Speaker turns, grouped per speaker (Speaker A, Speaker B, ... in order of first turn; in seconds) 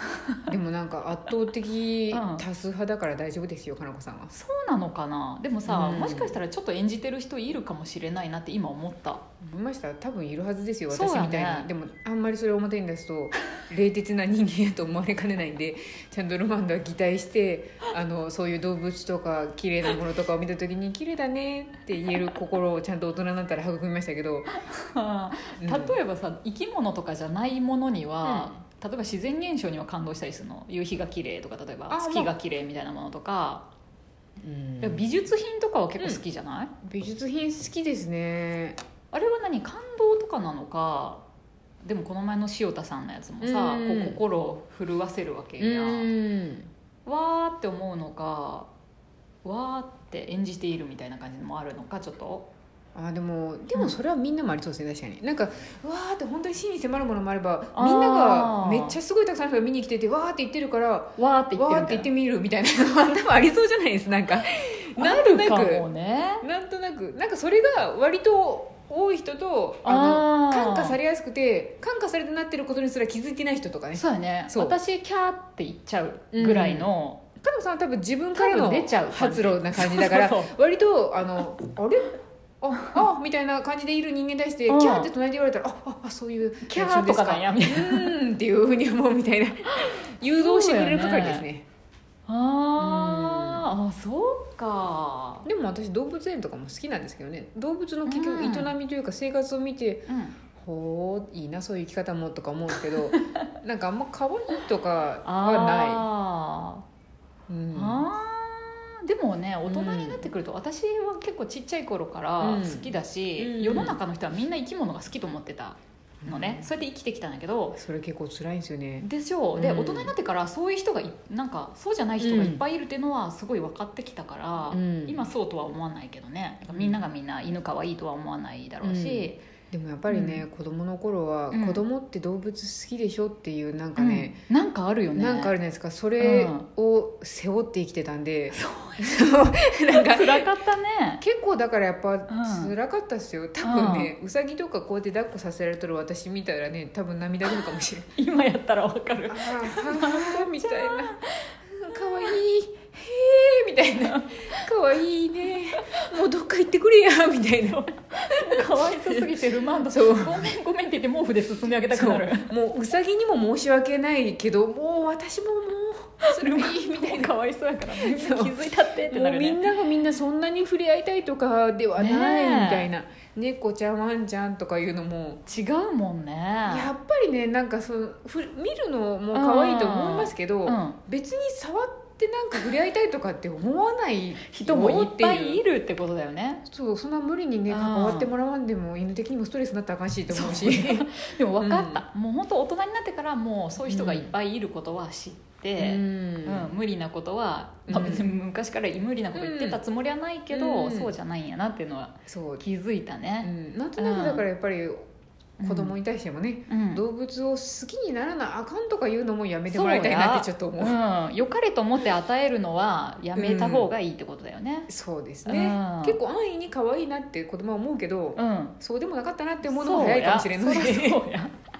Speaker A: 0.1-0.4, 2.1-2.4, 4.3-9.2, 10.9-11.7, 24.5-33.7, 34.8-36.7, 39.1-41.2, 41.8-46.1, 47.0-48.7, 49.4-52.5, 57.7-59.0, 61.2-62.1, 65.0-66.4, 69.8-71.0, 73.9-77.2, 78.3-80.5, 84.7-85.1, 86.7-88.1, 89.7-91.5, 92.3-95.5, 98.0-98.7, 100.1-100.4, 103.1-103.5, 105.2-106.8, 107.7-117.8, 119.0-129.4, 130.1-130.4, 131.5-131.8, 134.0-135.5, 136.2-136.7, 138.5-139.3, 139.9-141.2, 142.3-142.7, 143.6-144.1, 148.2-152.3, 154.1-154.7, 155.8-156.1, 157.8-162.5, 166.2-169.7, 171.9-172.9, 175.4-176.9, 179.3-181.0, 184.4-186.6, 187.7-188.3, 190.3-204.5, 205.6-205.9, 206.7-207.0, 209.7-214.9, 215.4-216.2, 218.3-218.8, 219.7-221.6
Speaker B: 0.5-4.3, 5.7-6.4, 9.4-24.5, 25.6-26.0, 28.2-28.6, 31.9-32.3, 34.4-35.1, 36.0-36.2, 36.8-38.8, 43.4-44.2, 45.6-46.7, 52.9-65.9, 66.4-74.8, 76.3-91.6, 92.8-93.7, 95.4-106.1, 107.5-108.0, 109.7-110.3, 112.4-114.0, 116.2-116.7, 117.8-120.1, 122.2-122.6, 124.7-125.2, 126.7-127.0, 128.8-134.4, 135.1-140.5, 141.2-148.1, 149.3-160.6, 161.9-167.3, 167.9-175.4, 176.7-185.6, 186.7-192.0, 193.8-194.3, 195.8-196.7, 197.9-198.3, 199.3-199.8, 200.5-201.1, 202.3-202.6, 203.4-205.0, 205.6-211.0, 213.3-213.9, 214.9-221.2